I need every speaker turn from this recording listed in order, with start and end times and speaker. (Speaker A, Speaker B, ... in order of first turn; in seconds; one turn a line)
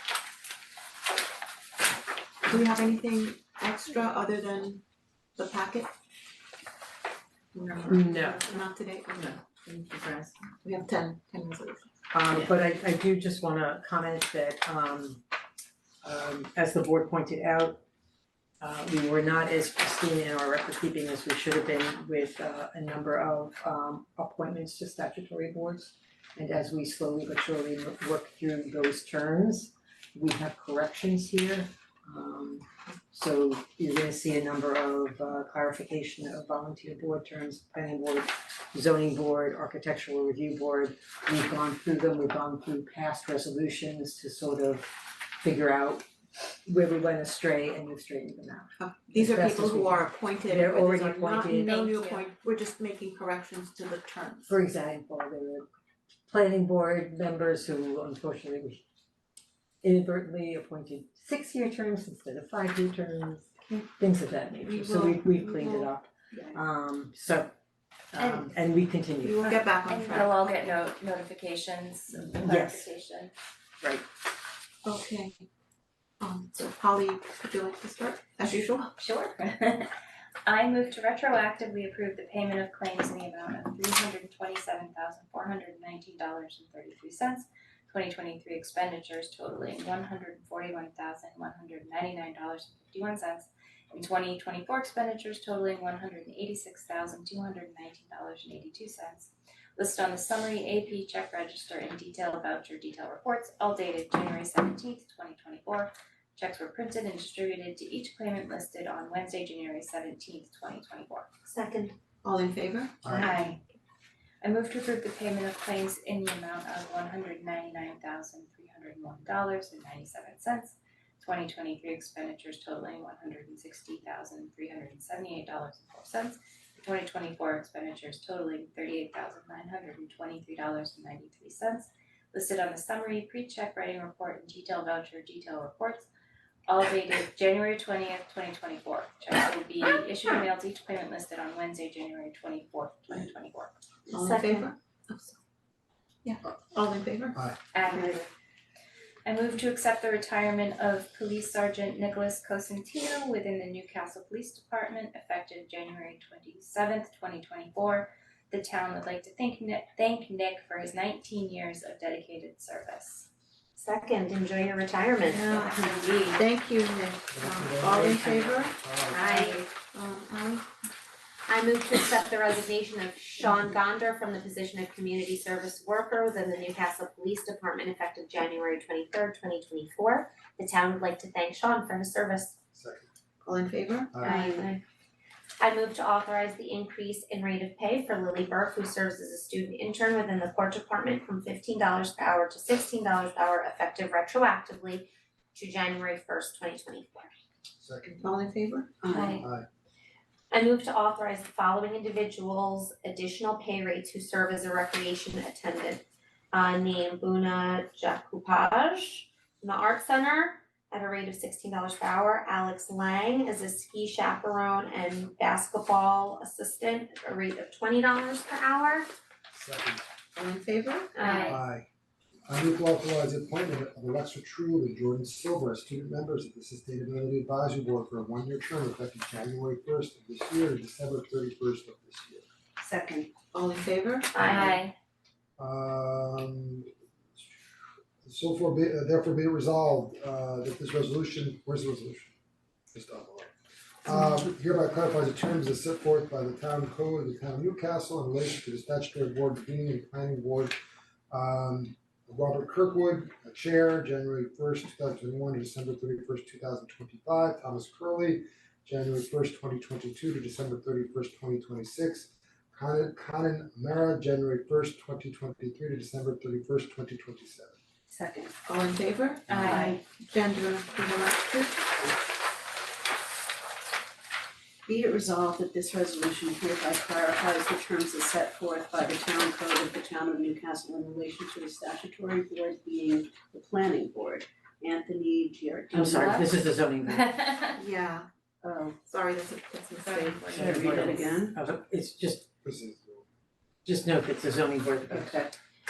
Speaker A: 2.5-4.8
Speaker A: 5.4-5.9
Speaker A: 7.5-9.4
Speaker B: 7.8-8.5
Speaker B: 9.2-10.5
Speaker A: 10.6-11.9
Speaker B: 12.1-15.2
Speaker B: 16.0-17.8
Speaker B: 18.6-46.0
Speaker B: 46.6-52.2
Speaker A: 48.8-54.6
Speaker C: 51.5-52.0
Speaker B: 54.5-55.6
Speaker B: 56.3-58.8
Speaker B: 59.8-67.5
Speaker A: 64.6-66.6
Speaker B: 68.1-69.6
Speaker A: 69.2-70.4
Speaker C: 69.8-73.3
Speaker B: 72.3-72.9
Speaker A: 74.8-75.4
Speaker A: 76.2-78.9
Speaker C: 79.0-79.9
Speaker C: 80.5-111.3
Speaker D: 111.5-112.0
Speaker A: 112.2-113.0
Speaker E: 113.0-113.4
Speaker C: 113.1-113.6
Speaker C: 114.4-136.1
Speaker C: 136.7-143.7
Speaker A: 144.1-145.4
Speaker D: 144.1-144.7
Speaker A: 146.2-147.4
Speaker E: 147.3-147.6
Speaker C: 147.7-148.3
Speaker F: 147.9-148.2
Speaker C: 149.2-163.3
Speaker D: 163.8-166.4
Speaker A: 165.3-168.7
Speaker E: 167.3-169.2
Speaker D: 169.1-169.7
Speaker A: 169.9-170.7
Speaker D: 171.5-182.6
Speaker E: 182.7-183.1
Speaker A: 183.4-184.3
Speaker E: 184.1-184.6
Speaker D: 184.2-184.8
Speaker D: 185.6-197.3
Speaker E: 197.8-198.3
Speaker A: 198.2-199.0
Speaker F: 199.0-199.4
Speaker D: 199.1-199.4
Speaker E: 199.4-199.7
Speaker D: 200.5-219.1
Speaker E: 219.5-220.0
Speaker A: 220.3-221.5
Speaker D: 221.2-221.6
Speaker C: 221.2-221.6
Speaker E: 221.5-221.9
Speaker E: 222.5-232.4
Speaker A: 233.4-234.5
Speaker D: 234.3-234.8
Speaker C: 234.4-234.9
Speaker E: 235.6-237.6
Speaker E: 238.2-242.3
Speaker E: 242.9-243.5
Speaker E: 244.0-250.8
Speaker E: 251.3-267.8
Speaker A: 268.1-271.9
Speaker C: 269.5-270.0
Speaker F: 274.9-286.5
Speaker B: 285.9-287.6
Speaker C: 287.1-287.8
Speaker A: 287.8-288.3
Speaker F: 288.6-289.0
Speaker A: 289.1-290.5
Speaker C: 290.0-291.3
Speaker F: 290.5-291.6
Speaker B: 290.5-292.5
Speaker E: 292.6-293.3
Speaker B: 293.9-295.5
Speaker F: 295.1-295.5